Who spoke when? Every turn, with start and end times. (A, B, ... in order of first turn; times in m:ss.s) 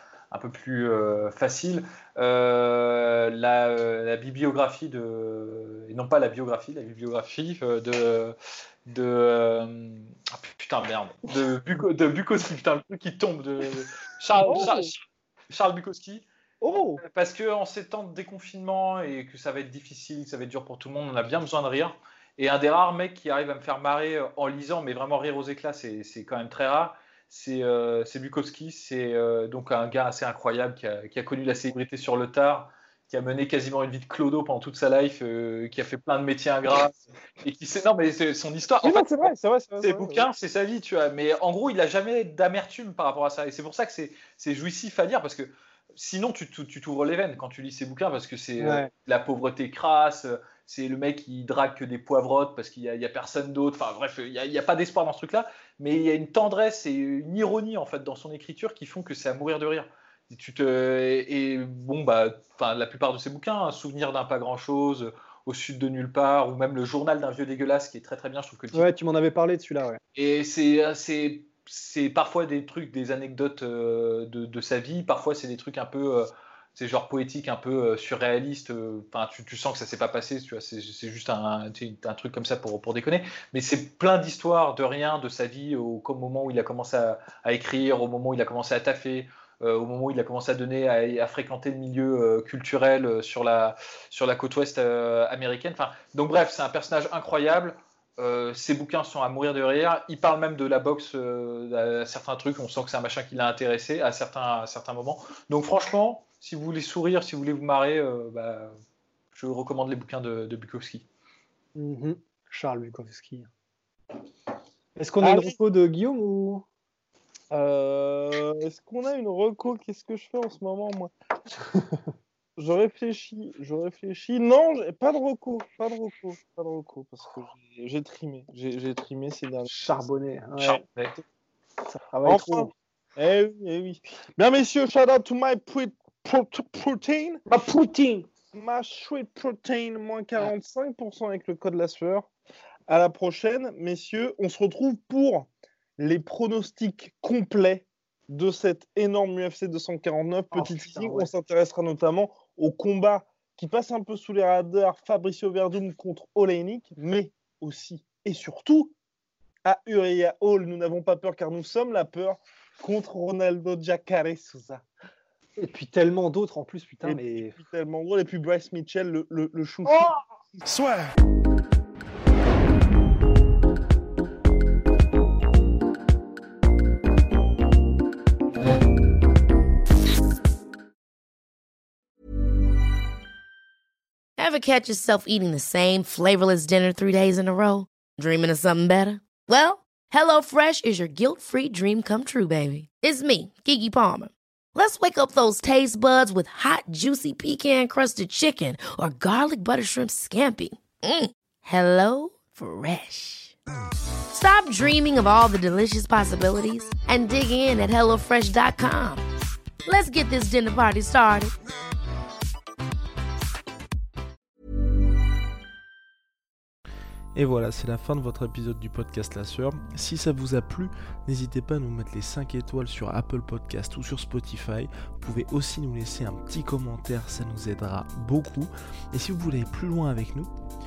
0:00.3-0:08.3 A
0:08.9-0:16.2 A
0:14.4-0:14.9 B
0:16.6-0:17.0 B
0:17.0-1:08.9 A
0:38.8-0:40.2 C
0:48.6-0:48.9 B
1:08.7-1:10.0 B
1:10.1-1:48.7 A
1:49.3-1:51.0 A
1:51.8-1:53.5 B
1:55.0-1:56.6 B
1:55.2-1:55.6 C
1:57.5-2:01.1 C
2:02.6-2:09.7 C
2:09.6-2:10.8 B
2:10.6-2:11.2 A
2:11.9-2:12.7 B
2:12.2-2:17.4 C
2:17.5-2:18.2 B
2:18.5-2:22.3 C
2:22.9-2:38.9 C
2:30.5-2:31.3 B
2:39.6-2:44.8 C
2:45.6-2:47.6 B
2:47.0-2:50.2 C
2:50.6-2:51.1 D
3:04.4-3:23.5 E
3:24.3-3:29.2 E
3:29.8-3:31.5 E
3:37.3-3:50.5 D